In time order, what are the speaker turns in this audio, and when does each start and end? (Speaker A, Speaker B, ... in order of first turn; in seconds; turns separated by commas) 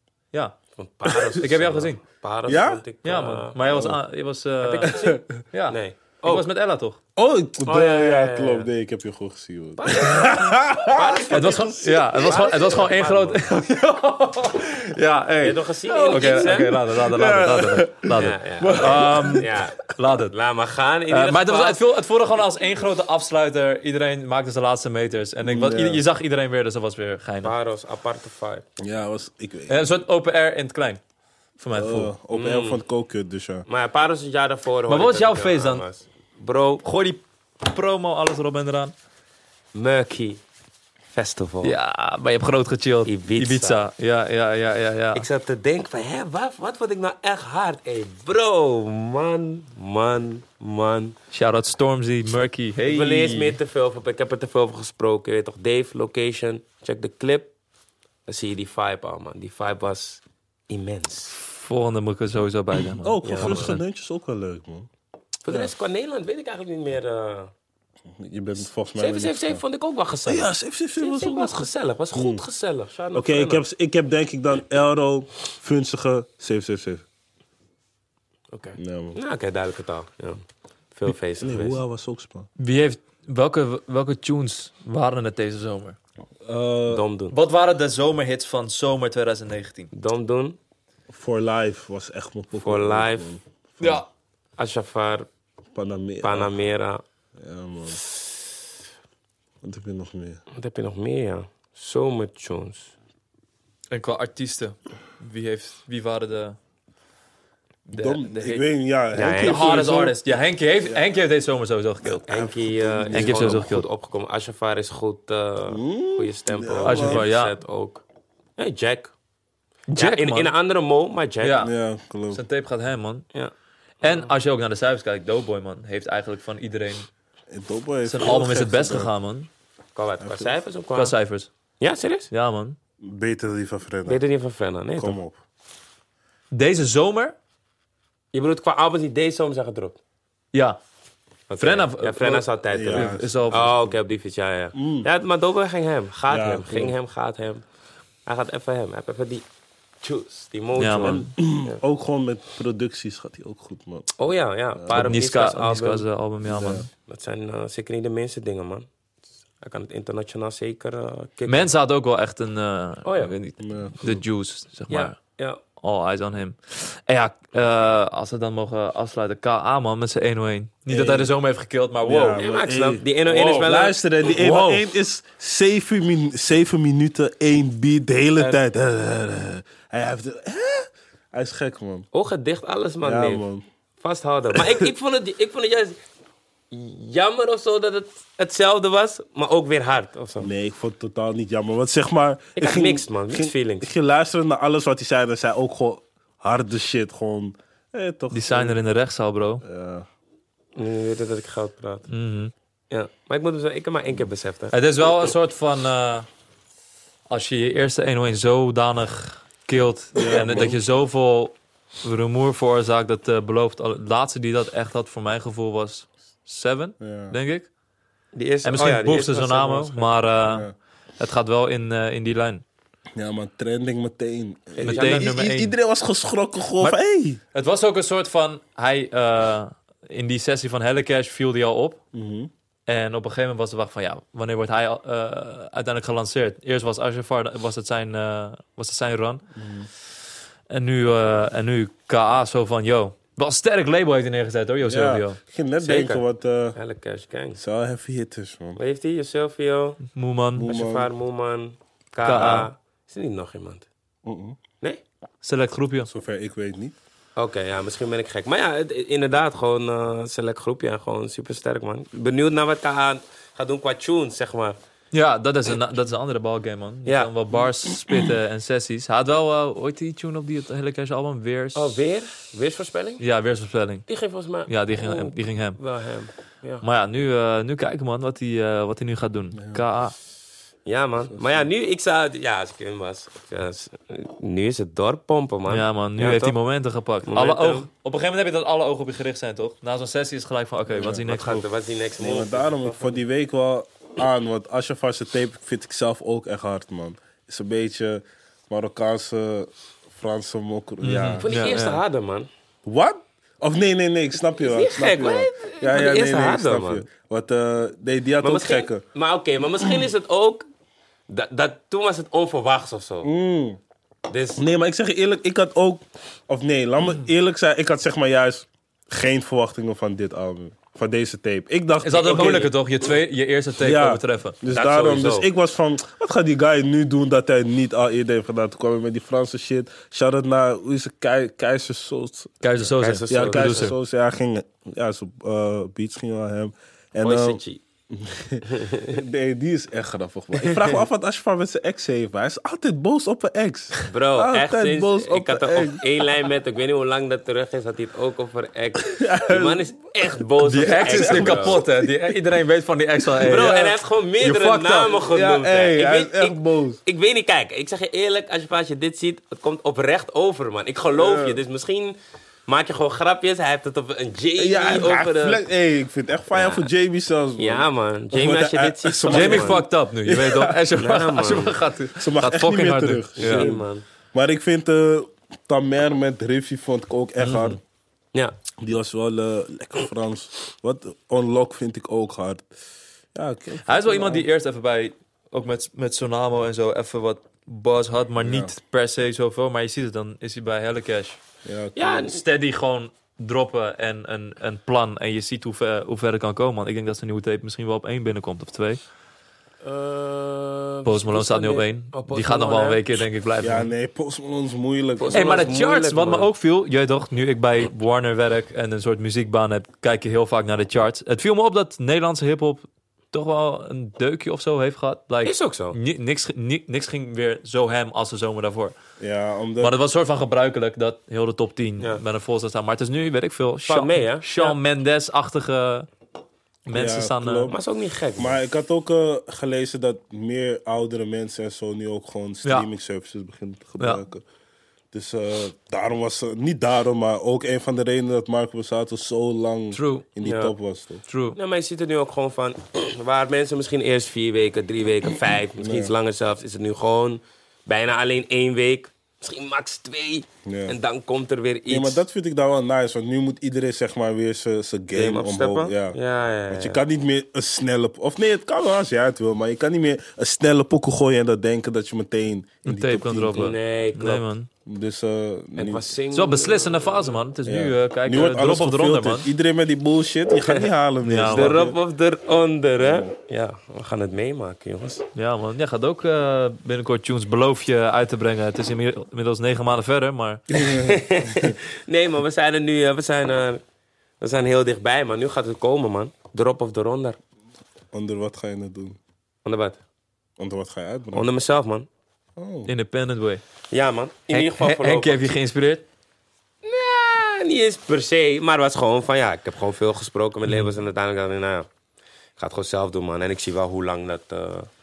Speaker A: 0.8-3.6, Speaker B: 1.2-2.0, Speaker C: 2.5-2.8, Speaker B: 3.0-7.0, Speaker C: 3.7-4.0, Speaker A: 4.6-6.5, Speaker C: 7.2-11.4, Speaker A: 7.7-8.7, Speaker A: 9.8-13.4, Speaker B: 11.3-20.4, Speaker A: 15.4-16.7, Speaker C: 15.9-19.5, Speaker A: 18.1-21.8, Speaker B: 21.1-27.5, Speaker C: 25.4-26.0, Speaker A: 27.4-28.6, Speaker C: 28.8-29.9, Speaker B: 29.7-31.0, Speaker B: 31.6-32.1, Speaker C: 31.7-33.7, Speaker A: 32.3-32.8, Speaker A: 33.7-36.8, Speaker B: 34.9-35.9, Speaker B: 36.9-38.9, Speaker A: 39.7-40.4, Speaker A: 41.1-41.8, Speaker B: 41.6-45.3, Speaker A: 43.0-43.9, Speaker A: 45.1-51.2, Speaker B: 51.3-53.6, Speaker A: 52.8-57.5, Speaker A: 58.3-61.4, Speaker B: 61.4-63.8, Speaker C: 63.0-64.9, Speaker A: 63.2-63.8, Speaker A: 65.4-67.5, Speaker C: 68.1-69.6, Speaker A: 69.0-73.6, Speaker C: 70.3-72.4, Speaker C: 73.1-77.0, Speaker A: 78.5-80.4, Speaker C: 78.8-79.2, Speaker A: 80.9-81.8, Speaker C: 81.4-82.5, Speaker B: 82.6-86.0, Speaker C: 86.5-87.0, Speaker A: 86.9-87.3, Speaker B: 87.3-89.9, Speaker A: 89.9-90.6, Speaker C: 91.1-94.0, Speaker A: 92.6-93.3, Speaker B: 93.8-94.1, Speaker A: 94.6-95.3, Speaker C: 95.8-96.5, Speaker A: 96.2-97.0, Speaker C: 97.4-98.0, Speaker C: 99.6-100.4, Speaker A: 100.5-102.9, Speaker B: 103.9-106.6, Speaker B: 107.9-108.6, Speaker C: 107.9-110.2, Speaker A: 109.2-109.8, Speaker B: 109.4-112.3, Speaker C: 112.0-113.7, Speaker A: 112.3-118.0, Speaker B: 113.1-113.9, Speaker C: 115.7-117.2, Speaker B: 116.8-117.5, Speaker A: 118.6-119.1, Speaker B: 119.9-120.5, Speaker A: 120.0-121.6, Speaker B: 121.4-121.7, Speaker C: 121.6-122.4, Speaker B: 122.3-123.3, Speaker B: 124.0-127.1, Speaker C: 127.5-129.1, Speaker B: 128.1-129.5, Speaker A: 130.0-131.2, Speaker C: 130.2-130.5, Speaker B: 130.9-131.5, Speaker A: 131.8-132.3, Speaker B: 132.3-132.8, Speaker C: 133.0-134.2, Speaker A: 134.1-135.2, Speaker C: 135.0-135.4, Speaker B: 136.5-137.3, Speaker A: 138.3-140.0, Speaker B: 140.5-140.8, Speaker A: 141.5-147.7, Speaker B: 141.6-143.8, Speaker C: 142.7-143.3, Speaker C: 144.8-145.1, Speaker C: 146.3-146.9, Speaker A: 148.3-149.4, Speaker A: 150.0-151.8, Speaker B: 150.8-151.3, Speaker C: 151.0-154.1, Speaker A: 154.2-156.1, Speaker C: 154.8-155.2, Speaker B: 154.9-156.9, Speaker C: 156.4-156.9, Speaker A: 157.1-158.9, Speaker A: 159.6-161.7, Speaker B: 161.5-165.2, Speaker A: 163.1-163.3, Speaker C: 163.6-164.2, Speaker A: 164.9-165.6, Speaker B: 165.8-172.4, Speaker C: 170.9-171.3, Speaker C: 172.1-182.1, Speaker A: 172.4-174.8, Speaker A: 182.1-183.4, Speaker C: 183.0-183.7, Speaker A: 184.0-186.0, Speaker C: 184.6-184.9, Speaker A: 186.7-190.5, Speaker C: 190.4-198.8, Speaker A: 192.6-193.9, Speaker B: 198.3-199.6, Speaker C: 199.6-200.1, Speaker A: 200.8-202.1, Speaker B: 202.1-202.5, Speaker A: 202.9-204.8, Speaker B: 204.7-206.3, Speaker B: 207.3-217.7, Speaker C: 210.2-210.8, Speaker A: 210.3-210.7, Speaker C: 217.0-217.4, Speaker A: 218.3-220.1, Speaker B: 218.6-222.6, Speaker C: 220.4-220.7, Speaker C: 223.2-227.4, Speaker A: 224.8-225.2, Speaker B: 224.8-225.7, Speaker B: 227.5-232.0, Speaker C: 232.1-232.5, Speaker B: 232.9-239.4, Speaker C: 239.6-239.9, Speaker B: 240.7-245.4, Speaker C: 244.8-246.8, Speaker A: 245.8-246.2, Speaker A: 246.8-247.6, Speaker C: 247.6-248.8, Speaker A: 248.8-250.0, Speaker B: 250.2-250.7, Speaker C: 250.6-251.1, Speaker A: 250.7-253.9, Speaker B: 252.2-252.7, Speaker C: 254.2-254.6, Speaker B: 255.4-256.1, Speaker C: 256.1-256.9, Speaker A: 257.4-264.8, Speaker B: 265.1-272.0, Speaker A: 267.1-267.3, Speaker A: 271.8-273.2, Speaker B: 273.2-274.1, Speaker A: 274.1-276.8, Speaker B: 274.6-275.8, Speaker B: 276.8-280.1, Speaker C: 279.6-279.8, Speaker A: 280.9-286.6, Speaker C: 281.3-281.6, Speaker B: 285.7-291.7, Speaker A: 287.2-287.9, Speaker C: 290.9-291.2, Speaker A: 291.1-293.2, Speaker C: 292.2-301.5, Speaker B: 301.0-302.0, Speaker A: 301.4-302.5, Speaker C: 302.9-309.0, Speaker A: 304.6-307.1, Speaker A: 308.4-310.7, Speaker C: 309.8-310.1, Speaker A: 311.3-313.3, Speaker C: 313.2-313.8, Speaker A: 314.3-314.6, Speaker C: 314.6-322.7, Speaker B: 322.0-324.6, Speaker A: 322.2-322.7, Speaker C: 323.8-346.1, Speaker A: 324.7-325.5, Speaker B: 332.6-333.9, Speaker A: 333.0-333.9, Speaker A: 337.2-337.8, Speaker A: 338.7-339.1, Speaker A: 340.6-341.0, Speaker A: 344.1-351.8, Speaker C: 349.0-350.3, Speaker B: 350.6-355.2, Speaker C: 350.8-352.4, Speaker C: 353.4-353.8, Speaker A: 353.4-362.1, Speaker C: 355.2-357.0, Speaker C: 361.1-361.6, Speaker A: 362.7-365.6, Speaker C: 364.6-370.9, Speaker A: 366.5-366.9, Speaker A: 367.6-369.8, Speaker B: 369.3-373.7, Speaker A: 371.0-371.8, Speaker C: 372.2-377.8, Speaker A: 373.4-374.1, Speaker B: 377.4-377.8, Speaker C: 378.8-382.6, Speaker C: 383.4-384.5, Speaker B: 383.9-391.4, Speaker C: 388.4-388.7, Speaker C: 391.6-392.3, Speaker A: 392.0-392.4, Speaker B: 392.2-399.0, Speaker A: 399.8-403.2, Speaker B: 401.1-403.9, Speaker C: 403.6-405.7, Speaker A: 405.2-406.5, Speaker B: 405.3-418.9, Speaker A: 415.4-416.0, Speaker C: 419.2-419.9, Speaker B: 419.8-426.1, Speaker A: 423.9-424.8, Speaker B: 426.9-427.7, Speaker C: 426.9-427.8, Speaker A: 427.7-428.6, Speaker C: 428.4-434.4, Speaker C: 435.1-441.2, Speaker B: 439.9-440.3, Speaker A: 440.4-440.7, Speaker B: 441.3-441.6, Speaker A: 441.5-452.2, Speaker C: 445.8-446.1, Speaker C: 450.7-450.9, Speaker C: 451.9-456.2, Speaker A: 455.1-457.0, Speaker C: 456.7-463.7, Speaker B: 462.9-464.7, Speaker A: 463.6-464.4, Speaker C: 464.9-466.1, Speaker A: 465.8-467.4, Speaker B: 466.3-469.5, Speaker C: 467.6-472.0, Speaker B: 471.2-471.9, Speaker A: 471.5-475.3, Speaker C: 473.0-473.3, Speaker B: 475.4-480.7, Speaker A: 480.7-483.8, Speaker C: 480.8-481.8, Speaker A: 484.4-487.4, Speaker C: 488.1-489.2, Speaker A: 489.6-490.0, Speaker C: 490.6-491.4, Speaker A: 491.3-492.1, Speaker C: 492.6-492.9, Speaker B: 492.9-493.6, Speaker A: 493.9-495.6, Speaker B: 494.5-496.0, Speaker A: 496.8-501.9, Speaker B: 500.7-500.9, Speaker A: 502.6-504.9